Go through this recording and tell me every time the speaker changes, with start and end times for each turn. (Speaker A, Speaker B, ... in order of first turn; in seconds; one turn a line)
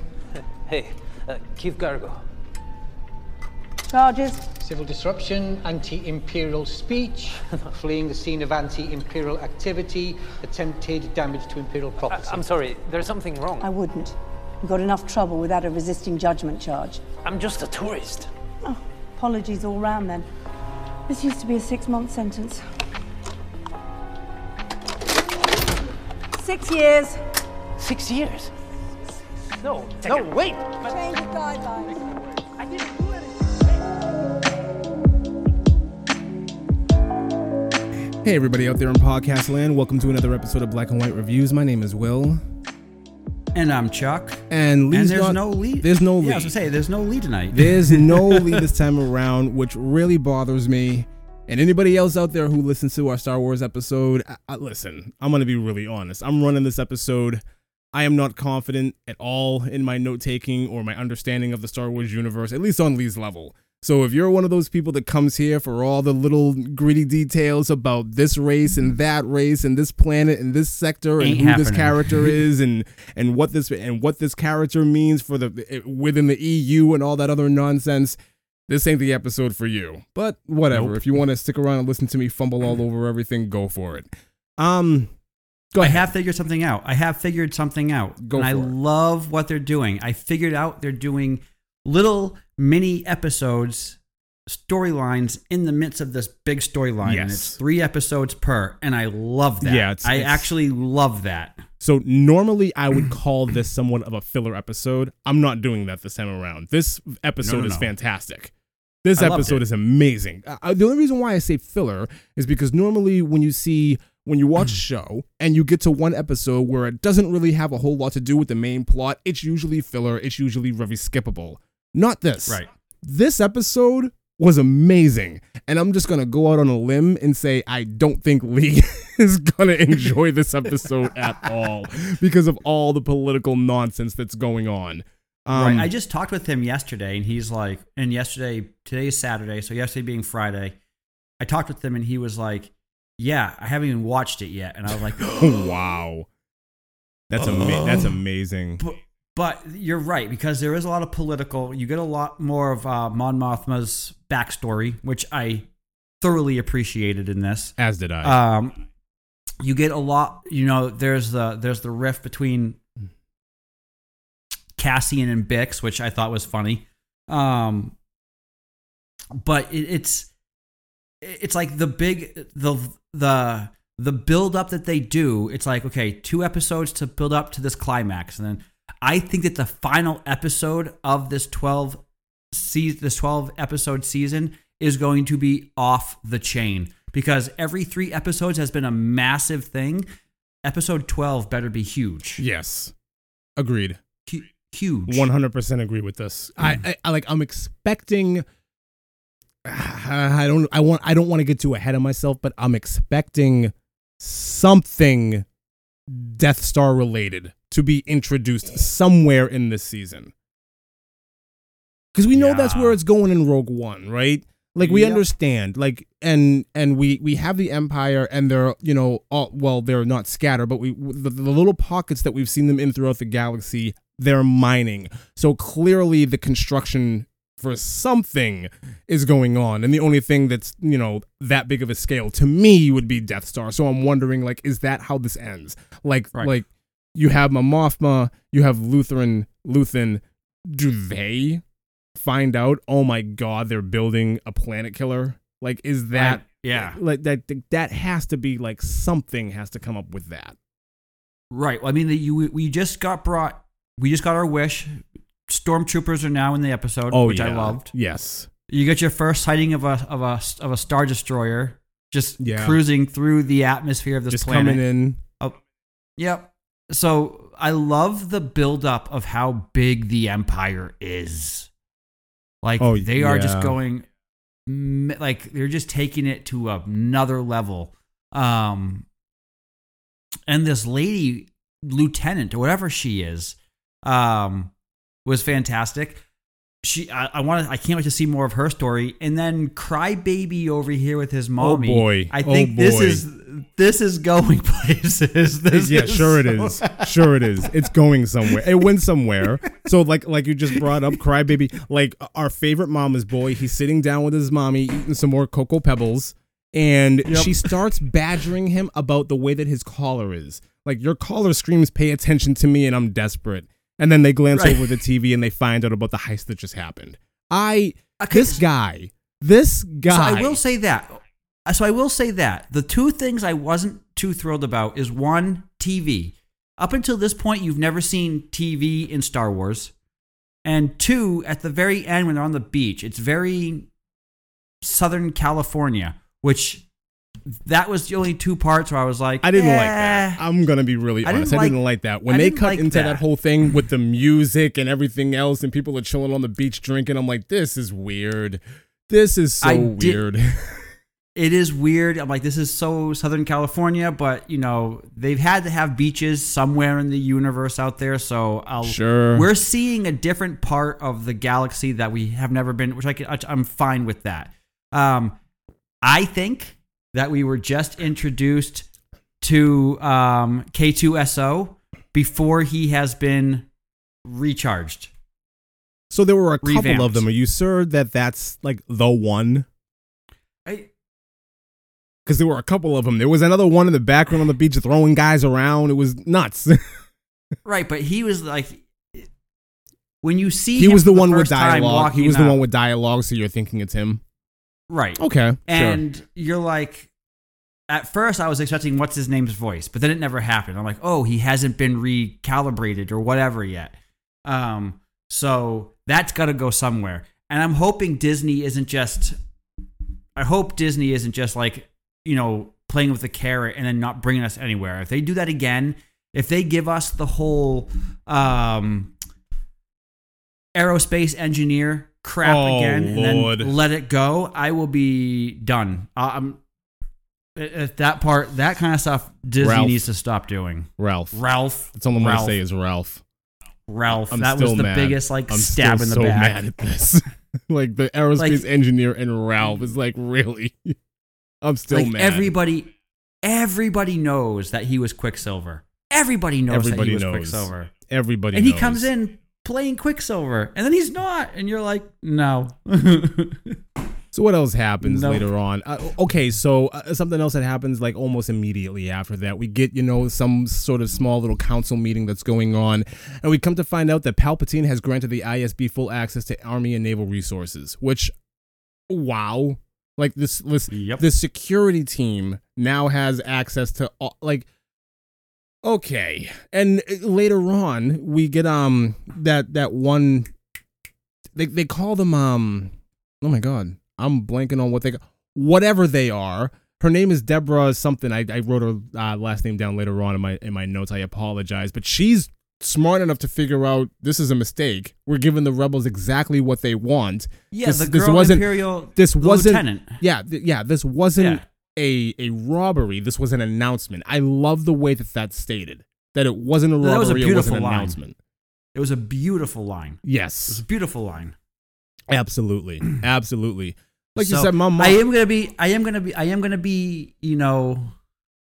Speaker A: 0.6-2.2
Speaker B: 3.9-4.6
Speaker C: 4.6-12.4
Speaker A: 12.1-13.7
Speaker B: 13.6-17.0
Speaker A: 17.2-18.3
Speaker B: 18.6-20.3
Speaker B: 21.1-22.6
Speaker B: 26.3-27.2
Speaker A: 27.8-28.5
Speaker A: 29.5-30.9
Speaker B: 30.8-32.0
Speaker A: 32.1-33.2
Speaker D: 38.2-42.4
Speaker E: 43.5-48.6
Speaker D: 44.5-46.5
Speaker D: 47.5-57.4
Speaker D: 57.9-85.1
Speaker E: 71.2-72.3
Speaker E: 80.7-81.0
Speaker D: 85.7-86.1
Speaker E: 85.8-101.6
Speaker D: 88.2-88.7
Speaker D: 97.0-97.6
Speaker D: 99.6-100.5
Speaker D: 101.8-108.5
Speaker E: 107.4-107.9
Speaker D: 109.0-135.9
Speaker E: 109.2-109.6
Speaker E: 135.5-140.8
Speaker E: 141.4-145.4
Speaker D: 145.2-146.3
Speaker D: 147.3-148.8
Speaker E: 147.4-148.1
Speaker E: 148.8-155.7
Speaker E: 156.2-158.7
Speaker D: 157.8-158.4
Speaker E: 159.6-162.8
Speaker E: 164.8-167.9
Speaker E: 169.3-170.3
Speaker E: 171.2-190.1
Speaker E: 190.6-192.4
Speaker D: 192.4-192.9
Speaker D: 193.6-194.0
Speaker E: 194.2-195.3
Speaker D: 195.1-198.4
Speaker D: 199.6-205.5
Speaker D: 206.1-210.3
Speaker D: 212.1-241.6
Speaker E: 212.3-213.0
Speaker E: 214.8-215.2
Speaker D: 242.2-250.6
Speaker E: 246.1-247.0
Speaker E: 251.5-257.9
Speaker D: 257.1-258.5
Speaker E: 258.7-264.8
Speaker D: 262.4-262.8
Speaker D: 264.3-265.2
Speaker E: 266.2-271.7
Speaker E: 272.6-274.1
Speaker D: 272.8-273.8
Speaker E: 274.6-279.1
Speaker E: 280.5-284.7
Speaker E: 285.2-286.2
Speaker E: 286.8-297.7
Speaker D: 291.6-293.2
Speaker D: 295.7-320.6
Speaker E: 307.3-307.7
Speaker E: 314.5-314.9
Speaker E: 318.2-318.6
Speaker E: 320.1-329.9
Speaker E: 330.6-333.9
Speaker E: 334.8-336.9
Speaker E: 337.6-340.4
Speaker D: 339.4-350.9
Speaker E: 341.2-343.2
Speaker E: 349.6-350.2
Speaker E: 351.4-365.4
Speaker D: 358.8-359.5
Speaker E: 366.0-368.9
Speaker E: 369.4-373.7
Speaker E: 374.2-375.1
Speaker D: 376.1-379.6
Speaker E: 376.6-377.2
Speaker D: 382.2-387.0
Speaker E: 387.6-389.3
Speaker E: 390.2-392.6
Speaker D: 390.8-394.2
Speaker E: 394.9-397.1
Speaker D: 395.2-396.0
Speaker E: 397.9-409.4
Speaker E: 410.4-419.1
Speaker E: 420.8-426.6
Speaker D: 422.4-423.7
Speaker E: 427.6-432.6
Speaker D: 429.6-430.0
Speaker D: 431.0-431.4
Speaker D: 431.9-433.2
Speaker E: 433.9-436.6
Speaker D: 434.3-441.0
Speaker E: 438.4-438.6
Speaker D: 441.6-442.5
Speaker E: 441.9-442.9
Speaker E: 443.4-447.9
Speaker D: 446.7-449.1
Speaker E: 448.5-453.8
Speaker D: 454.3-468.3
Speaker E: 455.0-455.4
Speaker D: 469.1-474.7
Speaker E: 470.9-471.2
Speaker D: 475.8-480.5
Speaker D: 481.6-508.4
Speaker E: 497.7-500.2
Speaker E: 501.4-501.6
Speaker E: 507.0-508.2
Speaker E: 508.9-511.5
Speaker D: 510.2-510.8
Speaker D: 512.3-515.2
Speaker E: 514.4-518.1